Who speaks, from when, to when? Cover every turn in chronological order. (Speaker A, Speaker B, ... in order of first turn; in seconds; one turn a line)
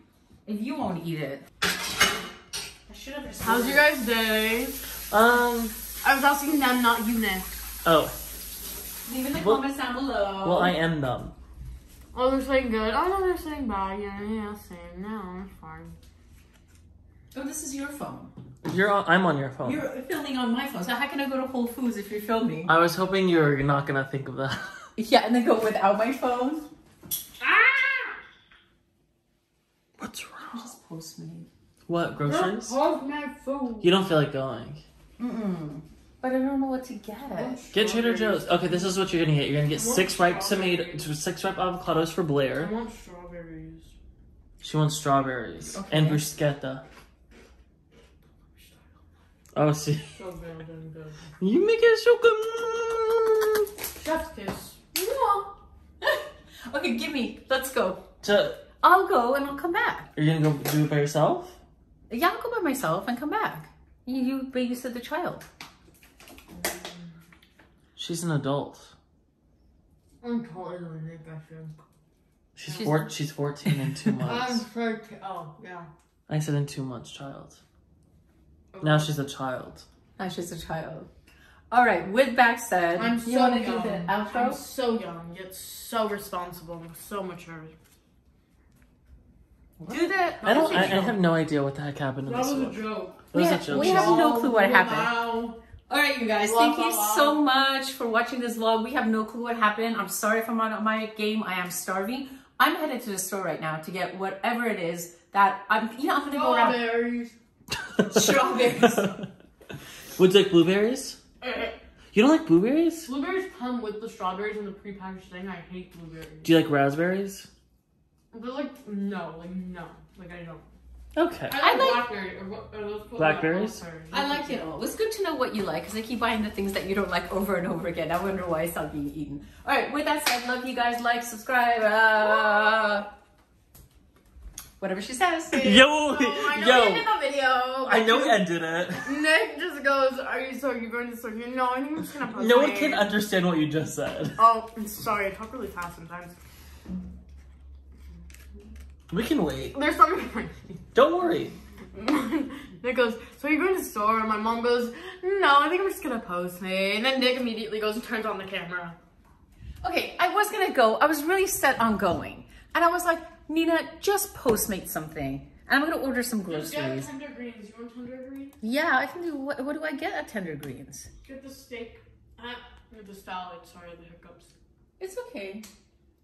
Speaker A: 0.5-1.4
Speaker A: 2.9-3.9
Speaker B: 3.4-4.8
Speaker C: 5.1-5.8
Speaker B: 6.0-7.5
Speaker C: 7.8-8.1
Speaker A: 9.1-10.8
Speaker C: 9.3-9.7
Speaker C: 10.4-11.3
Speaker B: 12.1-16.0
Speaker A: 17.3-18.3
Speaker C: 18.6-19.9
Speaker A: 19.6-22.7
Speaker C: 22.7-24.9
Speaker A: 25.0-26.7
Speaker B: 27.4-28.2
Speaker C: 30.0-30.7
Speaker A: 30.5-31.5
Speaker C: 31.9-32.8
Speaker B: 32.2-33.9
Speaker C: 33.8-34.8
Speaker A: 35.2-37.6
Speaker B: 37.3-38.9
Speaker C: 37.7-42.7
Speaker B: 39.7-41.1
Speaker B: 42.5-43.9
Speaker C: 44.6-46.8
Speaker A: 45.7-46.3
Speaker B: 48.6-48.8
Speaker C: 49.5-50.1
Speaker B: 50.1-51.2
Speaker C: 51.4-53.7
Speaker B: 54.0-55.5
Speaker A: 56.0-58.1
Speaker C: 58.2-58.6
Speaker A: 58.8-60.1
Speaker C: 60.2-61.6
Speaker A: 62.1-65.5
Speaker B: 66.5-67.0
Speaker C: 68.0-68.9
Speaker B: 70.2-71.7
Speaker C: 72.6-74.6
Speaker A: 72.7-73.1
Speaker B: 74.2-75.9
Speaker C: 76.3-77.6
Speaker B: 78.7-79.2
Speaker C: 78.8-79.9
Speaker A: 80.2-81.1
Speaker A: 81.7-84.6
Speaker B: 83.0-87.8
Speaker C: 89.8-94.3
Speaker A: 89.9-91.2
Speaker B: 90.4-91.1
Speaker B: 92.2-95.6
Speaker A: 93.3-107.1
Speaker B: 96.4-97.5
Speaker B: 106.2-107.3
Speaker C: 108.0-109.3
Speaker A: 108.1-109.1
Speaker C: 110.2-111.2
Speaker B: 111.4-111.8
Speaker C: 112.1-113.1
Speaker B: 113.0-116.5
Speaker C: 116.5-117.5
Speaker B: 118.3-120.7
Speaker C: 121.2-121.6
Speaker B: 121.5-124.6
Speaker A: 121.6-122.1
Speaker C: 123.2-123.8
Speaker A: 124.1-133.1
Speaker B: 132.2-132.8
Speaker A: 134.8-135.8
Speaker C: 135.5-137.1
Speaker B: 135.7-138.5
Speaker C: 137.8-139.2
Speaker B: 139.0-143.1
Speaker C: 142.3-144.4
Speaker B: 144.4-146.4
Speaker C: 149.1-149.8
Speaker B: 149.7-150.8
Speaker C: 150.9-151.6
Speaker B: 151.9-159.0
Speaker A: 159.8-167.1
Speaker B: 166.5-168.6
Speaker A: 168.6-171.1
Speaker B: 171.2-174.5
Speaker A: 175.0-175.7